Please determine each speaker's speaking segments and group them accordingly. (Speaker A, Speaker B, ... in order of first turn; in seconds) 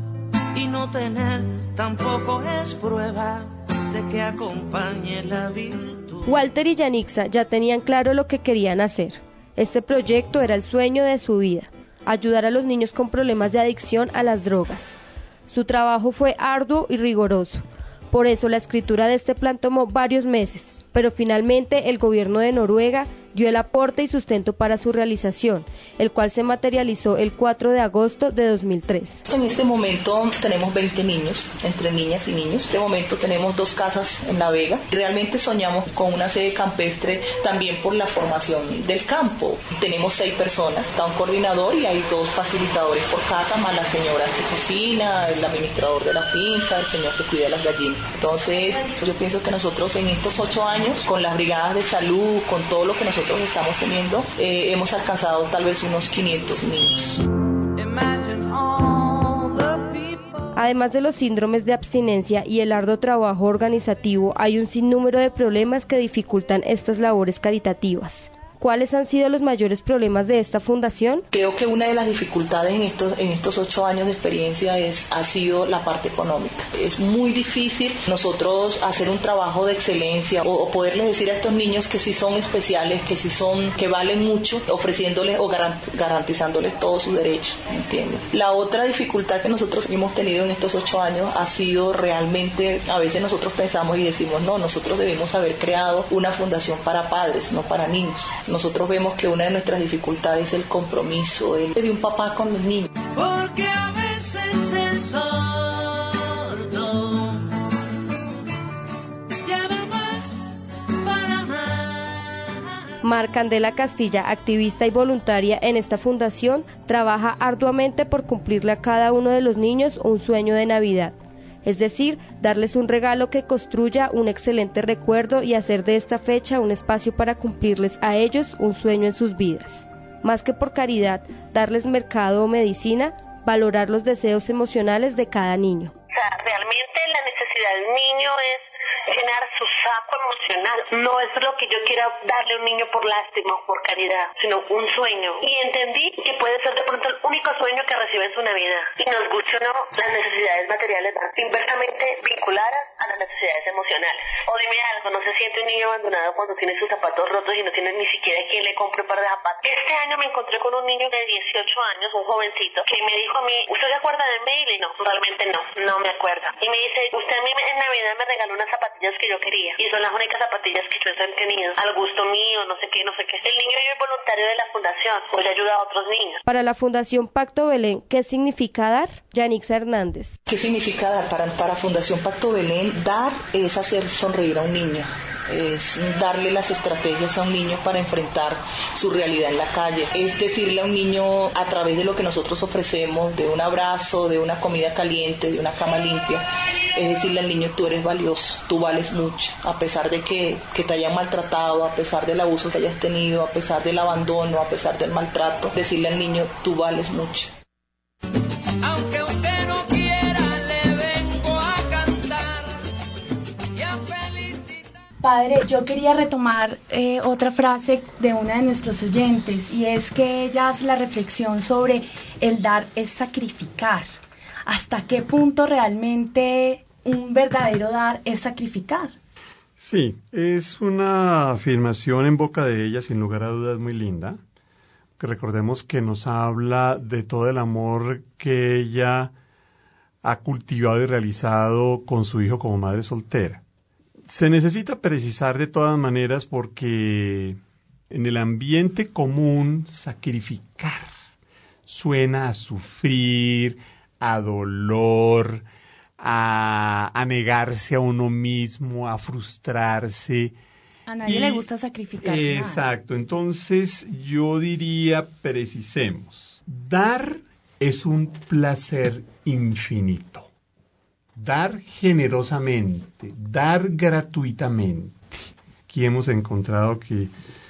Speaker A: 0.5-6.3, 57.9-60.1, 103.1-107.5, 109.4-110.4, 111.0-112.2, 208.8-212.6, 213.8-214.6
Speaker B: 6.3-14.9, 15.5-29.2, 60.5-71.2, 113.0-135.9, 176.4-180.4
Speaker C: 29.3-57.2, 71.3-102.9, 180.5-207.5
Speaker D: 136.1-176.4
Speaker E: 215.2-224.1, 224.7-229.1, 261.1-262.8
Speaker F: 229.8-234.4, 235.2-239.3, 240.2-243.6, 244.2-247.6, 248.1-251.1, 251.9-255.6, 256.2-260.5, 261.2-261.6, 262.2-270.5, 271.4-277.3